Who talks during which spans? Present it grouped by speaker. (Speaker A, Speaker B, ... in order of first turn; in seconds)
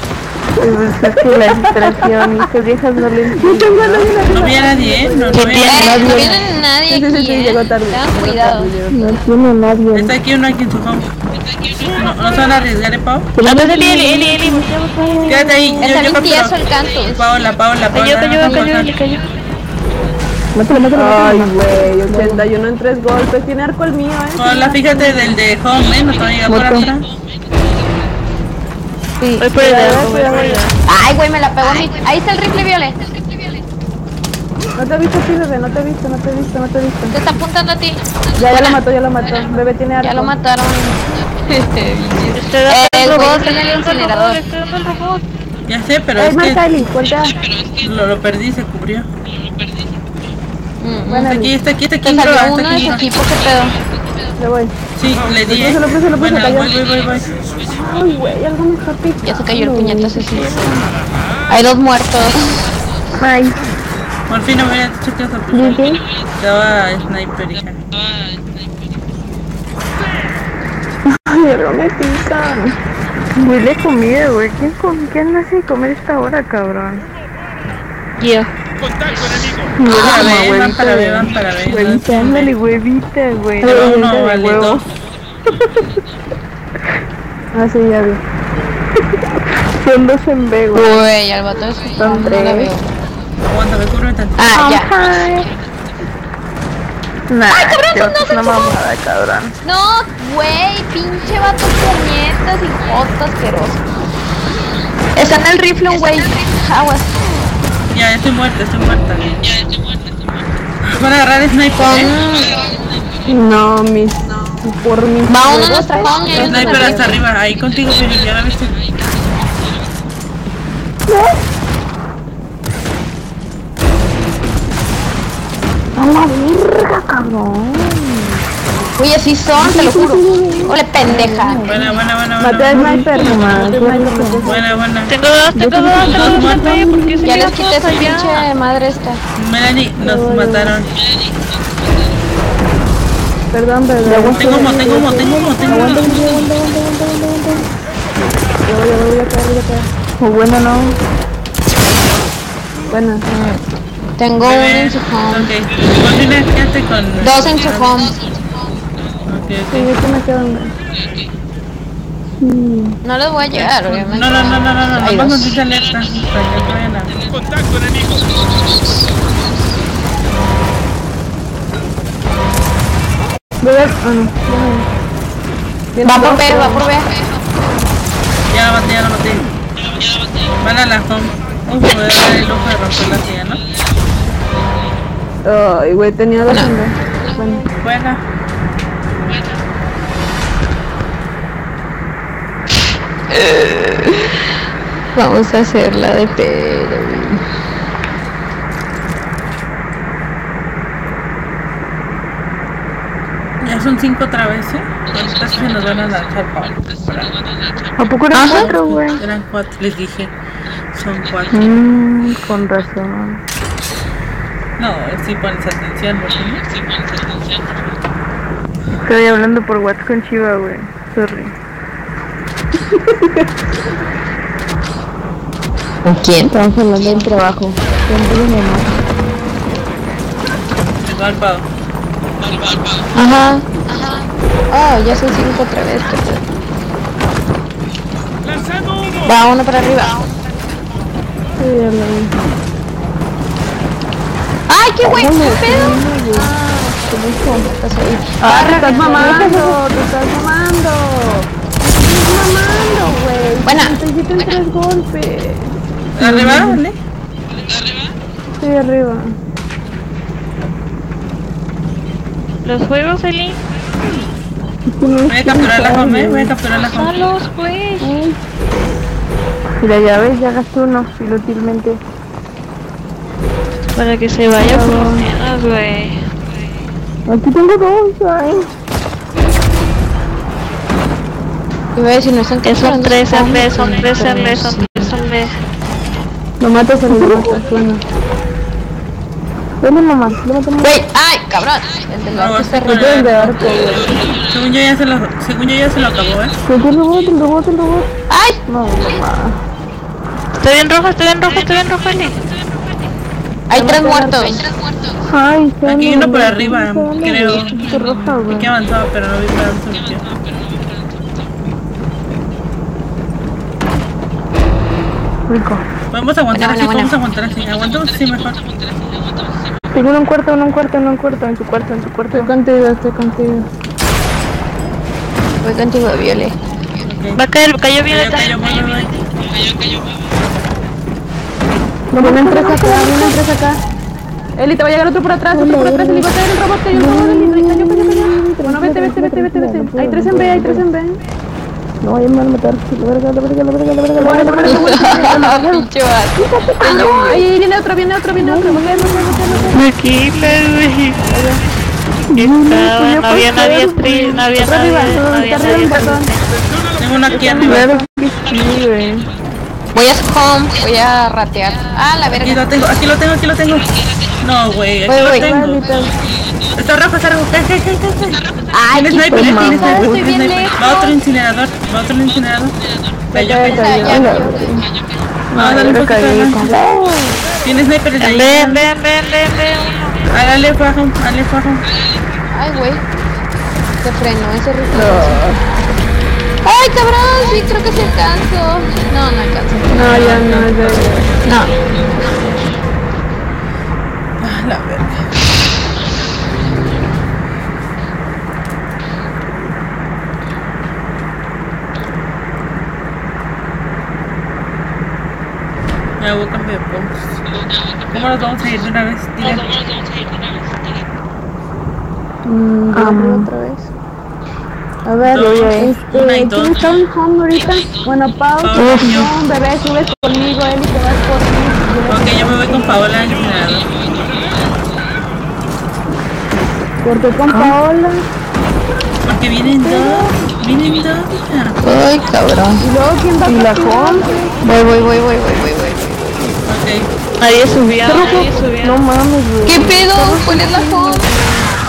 Speaker A: 0.6-4.1, 5.5-6.4, 8.9-10.1, 13.4-16.1, 20.5-22.5, 26.5-26.9, 59.8-60.9, 63.2-63.6, 65.5-66.0, 71.1-72.7, 73.3-77.1, 79.8-84.8, 89.5-91.0, 92.0-92.7, 94.5-95.5, 97.3-99.5, 121.1-121.4, 126.0-128.4, 129.6-131.9, 132.7-134.5, 135.5-137.2, 144.0-147.6, 150.2-151.0, 208.0-209.2, 211.5-213.4, 219.0-221.5, 226.5-228.9, 241.6-242.3, 245.0-246.5, 247.1-247.7, 248.4-249.8, 256.2-256.8, 264.9-266.5, 269.8-272.0, 277.3-278.7, 283.9-285.1, 287.1-287.6, 289.8-290.9, 296.6-298.1, 298.7-299.5, 305.3-308.7, 315.5-315.8, 319.9-322.5, 332.1-333.4, 335.5-336.3, 336.9-340.9, 342.0-345.8, 346.4-347.4, 348.4-349.6, 352.3-354.5, 355.4-356.2, 357.4-359.2, 369.3-370.3, 374.0-374.8, 375.5-376.9, 412.9-413.5, 415.3-415.9, 418.7-419.3, 427.5-427.8, 433.4-434.3, 438.0-441.3
Speaker B: 1.0-2.5, 3.3-9.0, 20.9-25.4, 29.2-30.7, 34.8-37.1, 38.4-40.3, 46.2-47.4, 51.1-51.6, 54.4-54.7, 55.4-56.7, 57.7-60.2, 87.5-88.2, 113.3-117.2, 132.4-134.8, 140.0-140.8, 143.5-146.4, 148.7-149.9, 152.9-153.2, 159.7-160.7, 162.4-162.9, 173.6-174.9, 175.9-176.8, 185.4-187.6, 248.5-255.7, 258.6-259.3, 268.0-268.4, 274.6-275.2, 284.0-284.4, 286.6-288.0, 292.9-294.2, 303.7-304.6, 322.3-323.6, 332.2-333.8, 334.6-341.2, 344.2-345.6, 346.9-349.8, 351.3-351.6, 354.6-356.3, 357.3-358.1, 365.2-366.1, 373.3-374.3, 384.9-385.6, 389.9-391.3, 412.4-413.9, 415.0-423.1, 427.0-428.2, 429.8-430.2, 432.8-434.6
Speaker C: 4.3-6.0, 9.9-11.1, 11.8-13.3, 15.3-16.6, 17.1-18.9, 24.4-27.0, 45.7-46.7, 47.8-49.1, 51.1-53.0, 55.0-57.3, 64.3-67.8, 79.9-82.5, 83.6-84.9, 93.5-94.4, 107.9-109.4, 110.8-112.1, 116.4-118.7, 131.7-133.7, 134.4-135.1, 136.0-136.7, 139.4-140.9, 144.3-146.5, 154.4-158.0, 159.2-159.9, 163.5-167.1, 178.5-179.4, 180.6-183.6, 187.8-188.2, 203.6-207.3, 208.4-210.3, 210.9-211.8, 214.8-216.6, 231.0-231.7, 256.1-256.9, 265.3-267.1, 292.3-296.5, 305.8-310.2, 316.1-318.6, 327.1-327.4, 328.1-329.2, 357.0-357.9, 362.3-363.9, 364.4-365.8, 366.8-372.7, 373.3-374.2, 375.6-376.7, 377.6-378.9, 380.3-381.8, 389.9-391.4, 394.4-395.3, 406.2-407.4, 408.1-409.7, 415.2-417.0, 418.6-419.3, 422.1-423.9, 429.2-431.8, 436.6-437.1
Speaker D: 5.3-6.0, 13.4-15.5, 17.9-19.3, 29.4-30.7, 42.3-45.2, 78.2-78.5, 135.1-138.5, 262.6-263.6, 266.9-268.2, 273.9-276.3, 282.6-285.5, 300.6-302.4, 327.3-328.6, 349.7-351.3, 352.3-356.4, 378.2-380.3, 437.4-439.0
Speaker E: 5.7-8.7, 15.8-17.4, 30.9-33.1, 37.1-38.0, 40.0-44.4, 50.8-51.3, 52.0-53.7, 59.2-60.5, 61.5-62.6, 90.7-92.9, 94.4-94.9, 97.5-98.8, 99.6-103.9, 105.2-107.3, 111.8-112.7, 115.3-117.2, 129.0-131.7, 137.2-139.2, 153.3-153.6, 154.2-155.5, 157.2-158.2, 163.0-165.6, 176.0-177.1, 186.5-186.7, 193.3-194.3, 195.1-197.4, 208.3-208.7, 226.0-226.5, 233.2-233.6, 234.7-236.4, 239.2-240.2, 244.7-247.0, 247.7-249.6, 253.6-254.0, 281.9-284.0, 290.8-293.3, 298.3-298.6, 303.7-304.6, 316.5-317.1, 325.6-326.5, 344.8-347.2, 359.9-362.6, 365.1-365.5, 368.7-371.1, 373.7-374.7, 382.5-383.0, 384.0-385.6, 386.6-390.1, 391.4-391.7, 431.8-432.8, 434.6-436.5, 439.6-441.2